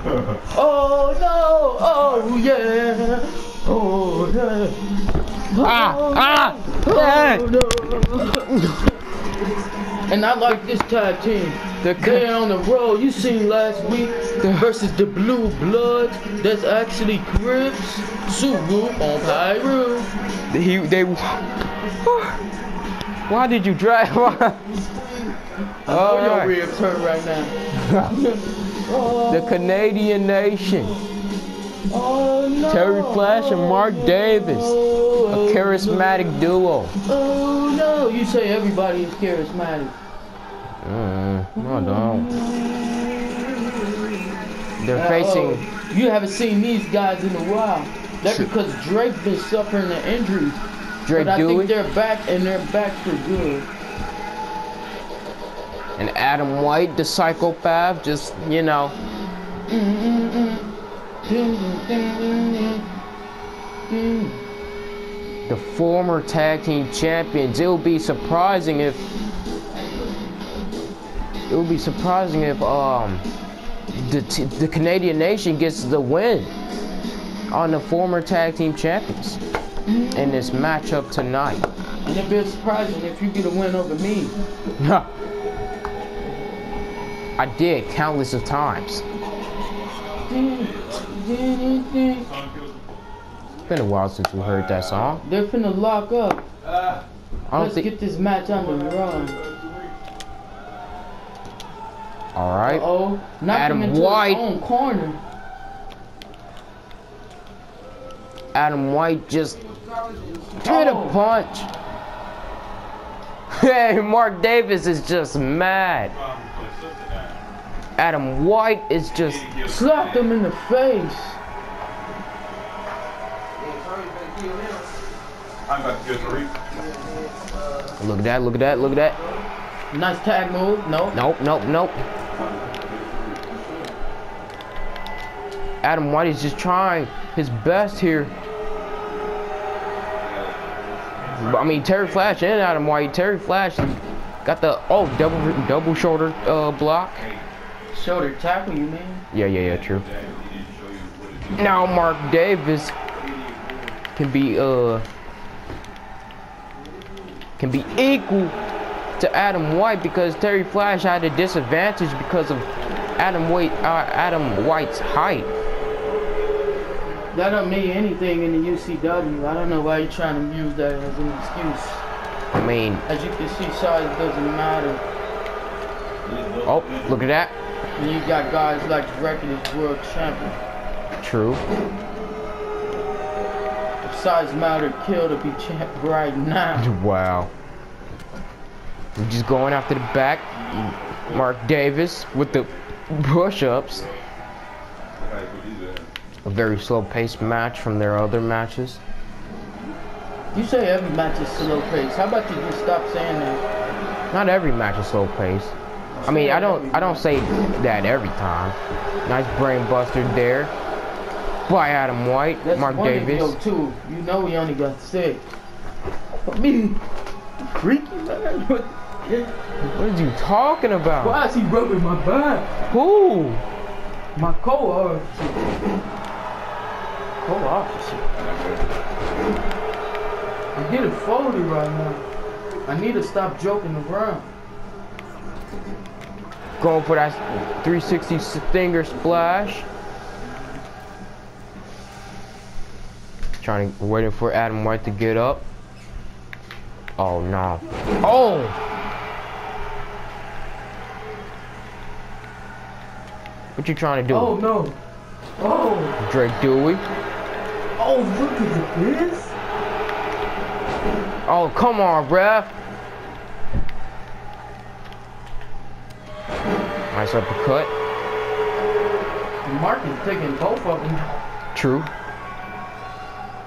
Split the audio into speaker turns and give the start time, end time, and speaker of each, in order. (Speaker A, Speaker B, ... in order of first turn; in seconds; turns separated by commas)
Speaker A: 0.3-4.8, Speaker A: 5.5-8.8, Speaker B: 5.6-7.5, Speaker B: 8.4-8.9, Speaker A: 10.1-20.1, Speaker B: 11.8-12.3, Speaker B: 20.5-22.4, Speaker B: 23.3-24.6, Speaker A: 25.9-27.6, Speaker B: 25.9-26.6, Speaker B: 27.8-28.1, Speaker A: 28.1-29.8, Speaker B: 29.3-30.9, Speaker A: 31.9-36.2, Speaker B: 32.7-34.8, Speaker B: 35.3-36.9, Speaker A: 37.1-39.9, Speaker B: 40.8-42.3, Speaker A: 41.6-44.2, Speaker B: 44.8-45.6, Speaker A: 44.9-50.6, Speaker B: 51.0-51.7, Speaker A: 51.1-53.7, Speaker B: 56.0-59.0, Speaker A: 59.7-60.7, Speaker A: 61.3-62.9, Speaker A: 63.9-64.4, Speaker B: 65.5-69.0, Speaker B: 71.5-73.2, Speaker B: 74.0-76.5, Speaker B: 77.5-79.4, Speaker A: 79.9-80.6, Speaker B: 80.1-81.7, Speaker A: 82.0-84.3, Speaker B: 84.8-85.1, Speaker B: 87.4-89.0, Speaker A: 90.2-92.3, Speaker C: 90.6-91.1, Speaker C: 92.3-92.8, Speaker B: 93.7-95.2, Speaker C: 94.4-95.2, Speaker A: 95.2-96.4, Speaker C: 96.7-97.0, Speaker B: 97.5-97.9, Speaker A: 97.5-99.4, Speaker C: 99.2-99.8, Speaker B: 102.4-102.8, Speaker A: 102.7-105.2, Speaker B: 103.5-104.4, Speaker B: 108.5-109.6, Speaker A: 110.1-111.2, Speaker B: 110.6-111.7, Speaker B: 113.5-116.1, Speaker C: 116.2-117.4, Speaker B: 118.0-119.5, Speaker C: 119.1-120.2, Speaker A: 119.7-121.4, Speaker A: 123.6-124.9, Speaker C: 125.7-126.5, Speaker A: 126.6-128.0, Speaker B: 128.0-129.2, Speaker A: 128.7-131.2, Speaker B: 131.1-132.0, Speaker C: 132.4-133.7, Speaker B: 135.8-138.3, Speaker C: 140.2-142.8, Speaker B: 141.4-147.3, Speaker C: 147.2-147.4, Speaker A: 147.9-149.2, Speaker B: 149.3-150.1, Speaker C: 149.7-152.0, Speaker B: 151.6-152.9, Speaker C: 153.1-153.9, Speaker B: 154.2-155.1, Speaker B: 157.6-158.6, Speaker B: 159.2-165.5, Speaker A: 167.3-172.0, Speaker B: 172.5-173.1, Speaker A: 173.1-175.0, Speaker C: 176.2-177.2, Speaker B: 176.7-177.5, Speaker A: 178.0-180.6, Speaker B: 181.2-181.6, Speaker A: 184.0-186.9, Speaker B: 186.8-187.5, Speaker B: 189.2-194.1, Speaker C: 190.6-191.5, Speaker C: 192.4-192.8, Speaker C: 195.2-196.1, Speaker B: 196.4-199.0, Speaker A: 200.5-203.6, Speaker B: 204.3-205.7, Speaker A: 206.2-207.3, Speaker B: 206.3-210.7, Speaker B: 211.7-213.6, Speaker A: 212.6-215.4, Speaker A: 216.3-217.0, Speaker A: 217.7-219.5, Speaker B: 219.8-221.4, Speaker A: 221.2-222.8, Speaker B: 222.9-223.6, Speaker A: 224.3-225.7, Speaker A: 227.4-228.3, Speaker C: 228.4-228.8, Speaker A: 230.8-232.2, Speaker A: 232.9-234.5, Speaker B: 236.8-239.9, Speaker B: 243.6-245.7, Speaker B: 247.2-248.8, Speaker B: 253.8-254.6, Speaker A: 254.3-255.0, Speaker A: 255.6-256.2, Speaker B: 256.2-257.0, Speaker A: 258.0-259.6, Speaker B: 261.5-262.7, Speaker B: 267.1-267.9, Speaker A: 269.6-271.4, Speaker B: 271.7-272.1